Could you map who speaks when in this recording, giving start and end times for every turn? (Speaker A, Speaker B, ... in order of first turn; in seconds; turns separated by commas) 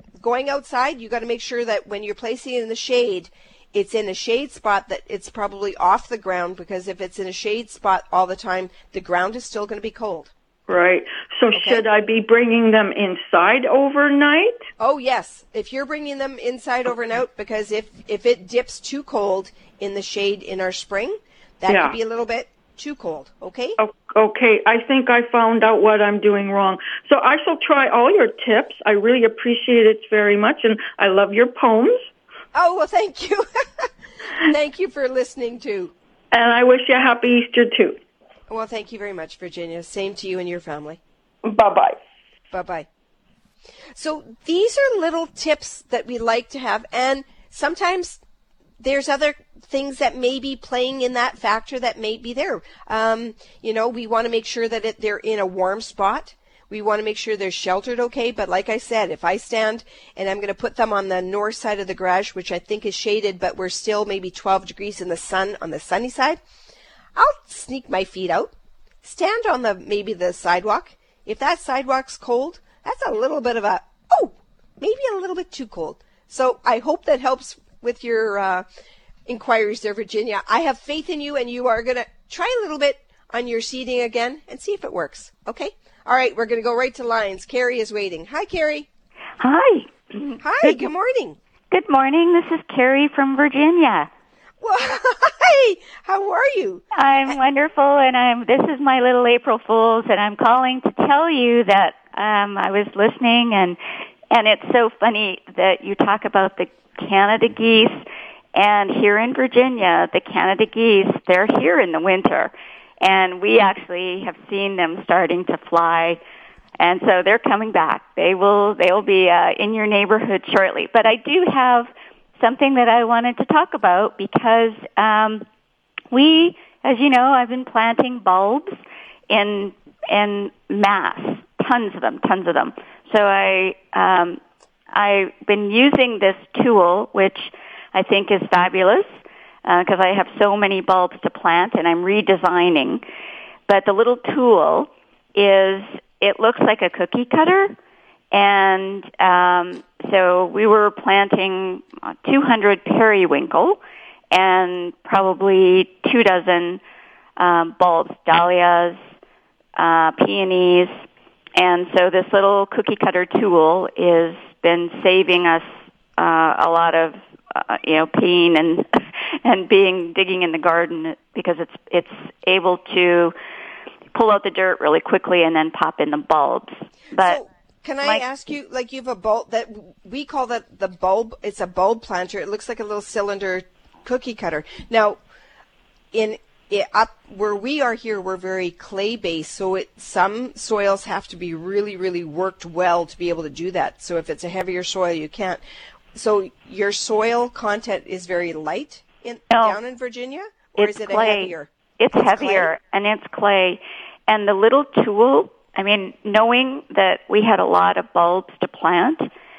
Speaker A: 0.2-10.3, Speaker B: 10.7-14.6, Speaker A: 11.5-11.8, Speaker A: 14.8-23.8, Speaker B: 21.7-22.0, Speaker B: 23.8-32.1, Speaker A: 32.5-35.9, Speaker B: 36.3-38.0, Speaker A: 38.5-41.0, Speaker B: 41.5-42.0, Speaker A: 42.5-42.9, Speaker A: 43.9-48.2, Speaker A: 48.8-66.4, Speaker A: 67.2-68.5, Speaker A: 69.0-78.7, Speaker A: 79.3-88.9, Speaker C: 89.4-90.9, Speaker A: 90.4-91.4, Speaker C: 91.7-94.1, Speaker A: 94.6-97.4, Speaker C: 96.9-103.8, Speaker C: 104.3-108.0, Speaker C: 108.5-116.2, Speaker C: 116.8-125.5, Speaker C: 126.1-128.7, Speaker C: 129.3-134.4, Speaker C: 134.9-139.1, Speaker C: 139.7-143.0, Speaker C: 143.7-147.8, Speaker C: 148.3-153.8, Speaker C: 154.3-156.8, Speaker C: 157.4-159.0, Speaker C: 159.8-160.9, Speaker C: 161.6-165.6, Speaker C: 166.2-173.3, Speaker C: 174.1-177.4, Speaker A: 177.2-185.2, Speaker A: 186.1-195.6, Speaker A: 196.1-202.7, Speaker C: 199.5-199.8, Speaker C: 200.8-209.3